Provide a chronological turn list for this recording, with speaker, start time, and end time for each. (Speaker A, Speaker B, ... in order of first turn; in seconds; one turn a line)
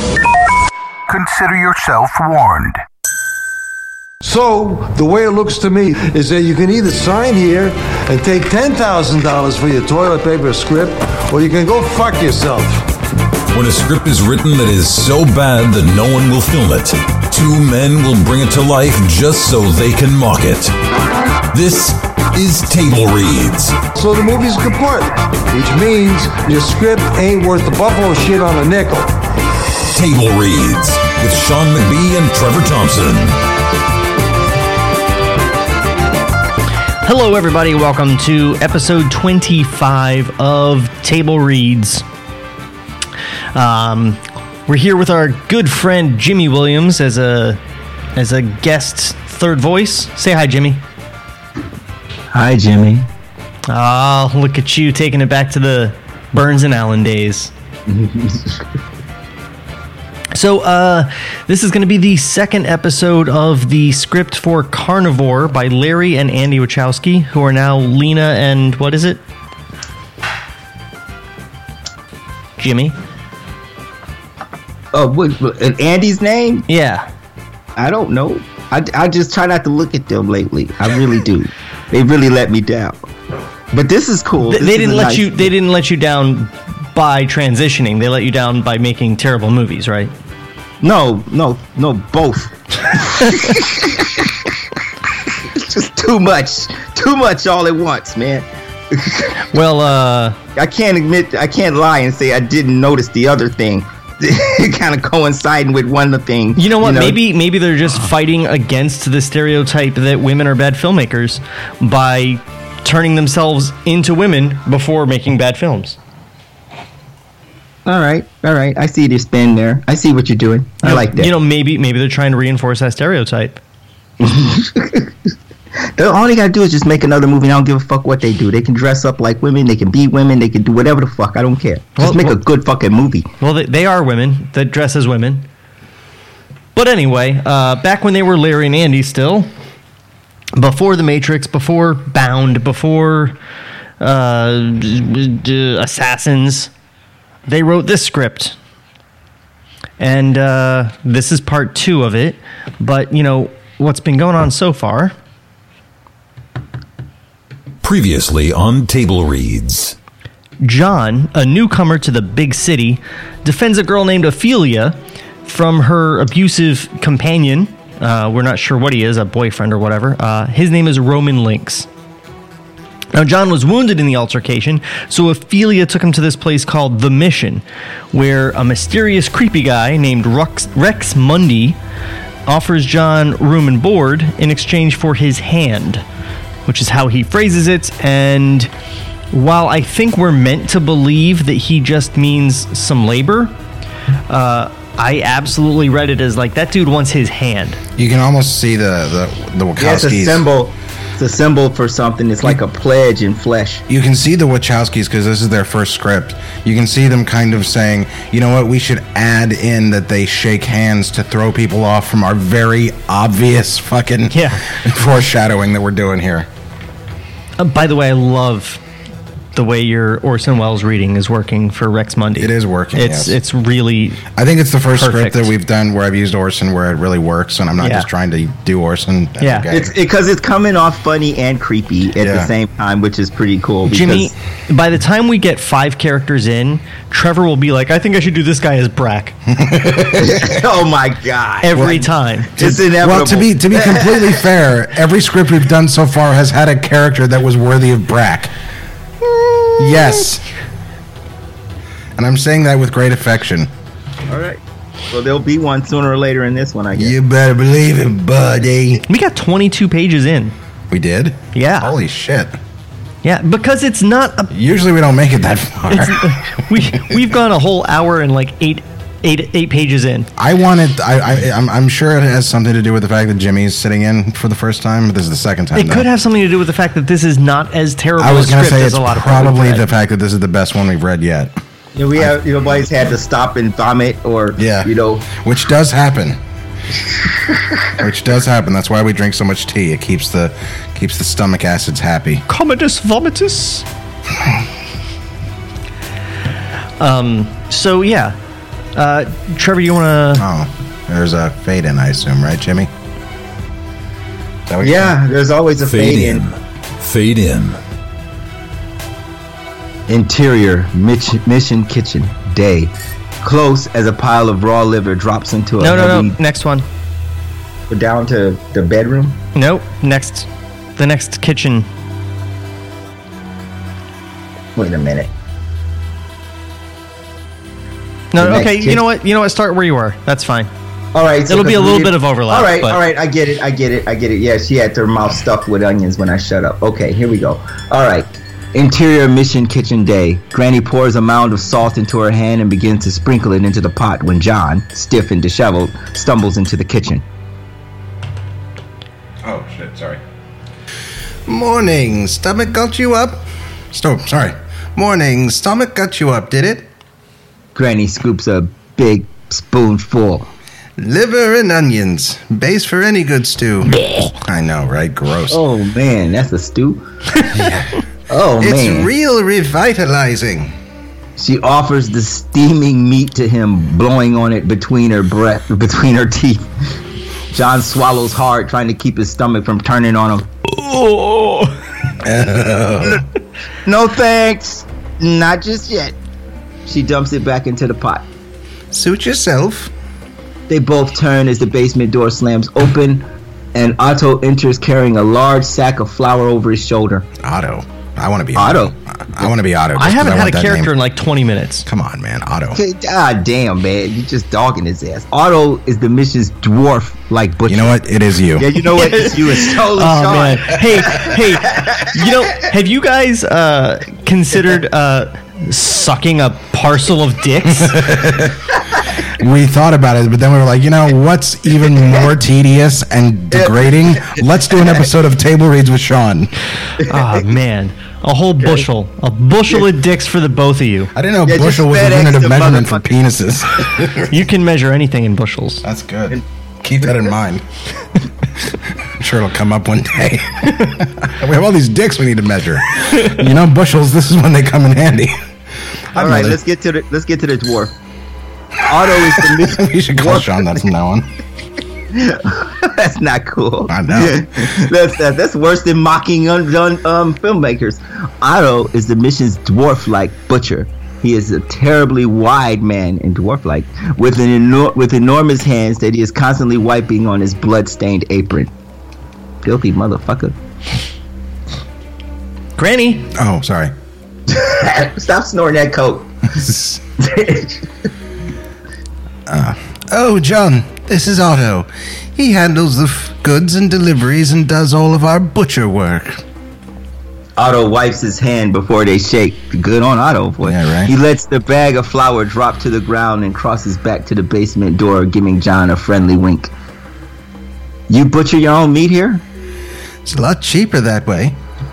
Speaker A: 1.1-2.8
Speaker A: 4.2-12.9
Speaker B: 13.5-20.7
Speaker B: 21.5-23.8
Speaker A: 23.9-29.2
Speaker B: 29.9-33.4
Speaker C: 37.0-42.0
Speaker C: 43.5-47.6
Speaker C: 48.1-50.8
Speaker D: 52.3-53.1
Speaker C: 53.7-57.5
Speaker D: 57.9-58.6
Speaker C: 60.3-69.2
Speaker C: 72.6-73.0
Speaker D: 74.9-76.7
Speaker C: 76.7-77.1
Speaker D: 77.8-83.0
Speaker D: 83.7-85.5
Speaker C: 84.5-90.1
Speaker D: 90.8-94.5
Speaker D: 95.3-99.4
Speaker C: 99.5-100.4
Speaker D: 100.5-107.2
Speaker C: 106.5-116.0
Speaker D: 117.8-121.3
Speaker C: 120.8-123.6
Speaker D: 124.2-125.1
Speaker D: 125.9-133.3
Speaker C: 132.0-132.3
Speaker C: 133.4-135.5
Speaker C: 136.7-139.5
Speaker C: 140.5-143.4
Speaker C: 144.0-146.7
Speaker C: 147.4-148.6
Speaker C: 150.0-155.1
Speaker B: 157.8-159.9
Speaker C: 160.6-171.9
Speaker C: 173.1-181.8
Speaker C: 182.5-186.0
Speaker C: 186.7-188.7
Speaker C: 189.3-193.5
Speaker C: 194.3-197.8
Speaker E: 198.0-200.4
Speaker D: 199.8-203.8
Speaker E: 203.9-216.5
Speaker C: 214.3-214.6
Speaker C: 217.6-218.8
Speaker C: 219.5-224.2
Speaker E: 222.4-223.4
Speaker E: 224.3-229.9
Speaker C: 224.9-225.5
Speaker C: 227.8-228.1
Speaker C: 229.4-229.7
Speaker D: 229.7-234.3
Speaker E: 232.2-232.5
Speaker C: 233.9-239.3
Speaker E: 239.5-240.6
Speaker D: 240.0-244.5
Speaker C: 241.6-242.6
Speaker E: 242.6-248.5
Speaker E: 249.8-250.4
Speaker E: 252.2-253.7
Speaker D: 254.3-257.1
Speaker E: 256.9-259.0
Speaker C: 259.1-260.5
Speaker E: 260.9-262.6
Speaker C: 261.5-261.9
Speaker C: 263.2-264.5
Speaker E: 264.5-266.4
Speaker C: 265.9-270.3
Speaker E: 270.4-276.1
Speaker C: 275.7-279.9
Speaker E: 278.2-281.5
Speaker D: 281.9-285.3
Speaker E: 284.6-286.4
Speaker E: 288.0-292.4
Speaker C: 292.5-293.9
Speaker C: 297.0-298.4
Speaker C: 298.9-300.4
Speaker E: 300.4-302.9
Speaker E: 304.7-305.2
Speaker D: 304.8-306.4
Speaker B: 305.8-307.8
Speaker D: 310.1-316.4
Speaker C: 315.8-316.8
Speaker D: 317.9-319.4
Speaker C: 319.5-321.9
Speaker D: 324.8-325.3
Speaker C: 328.3-330.7
Speaker D: 328.4-329.0
Speaker D: 331.1-347.2
Speaker C: 331.5-333.0
Speaker E: 349.4-350.2
Speaker E: 351.4-356.9
Speaker D: 357.7-360.5
Speaker E: 361.0-365.6
Speaker D: 365.5-367.0
Speaker E: 367.4-368.0
Speaker D: 368.3-369.1
Speaker E: 368.6-370.7
Speaker D: 371.4-376.7
Speaker D: 377.5-380.4
Speaker C: 380.7-381.8
Speaker E: 382.2-383.2
Speaker D: 383.8-386.1
Speaker D: 386.9-388.2
Speaker E: 388.9-389.9
Speaker D: 390.7-397.3
Speaker E: 397.4-400.9
Speaker D: 398.5-398.9
Speaker C: 400.0-401.9
Speaker E: 401.9-402.8
Speaker D: 402.7-408.0
Speaker E: 407.7-408.8
Speaker D: 408.6-412.3
Speaker C: 408.9-418.1
Speaker E: 417.6-426.5
Speaker D: 423.5-424.9
Speaker C: 427.0-431.1
Speaker E: 431.1-434.4
Speaker D: 431.4-433.1
Speaker C: 434.3-435.8
Speaker E: 435.8-437.6
Speaker E: 439.2-445.5
Speaker E: 446.1-446.6
Speaker D: 446.1-447.9
Speaker D: 448.8-450.8
Speaker E: 449.1-451.3
Speaker D: 452.1-468.7
Speaker E: 453.9-454.7
Speaker D: 469.6-470.5
Speaker C: 472.8-473.3
Speaker E: 473.3-473.9
Speaker D: 474.5-476.4
Speaker E: 476.5-477.0
Speaker D: 477.2-477.9
Speaker E: 479.5-486.4
Speaker D: 487.6-496.7
Speaker E: 490.6-491.1
Speaker D: 498.1-499.4
Speaker E: 500.2-501.6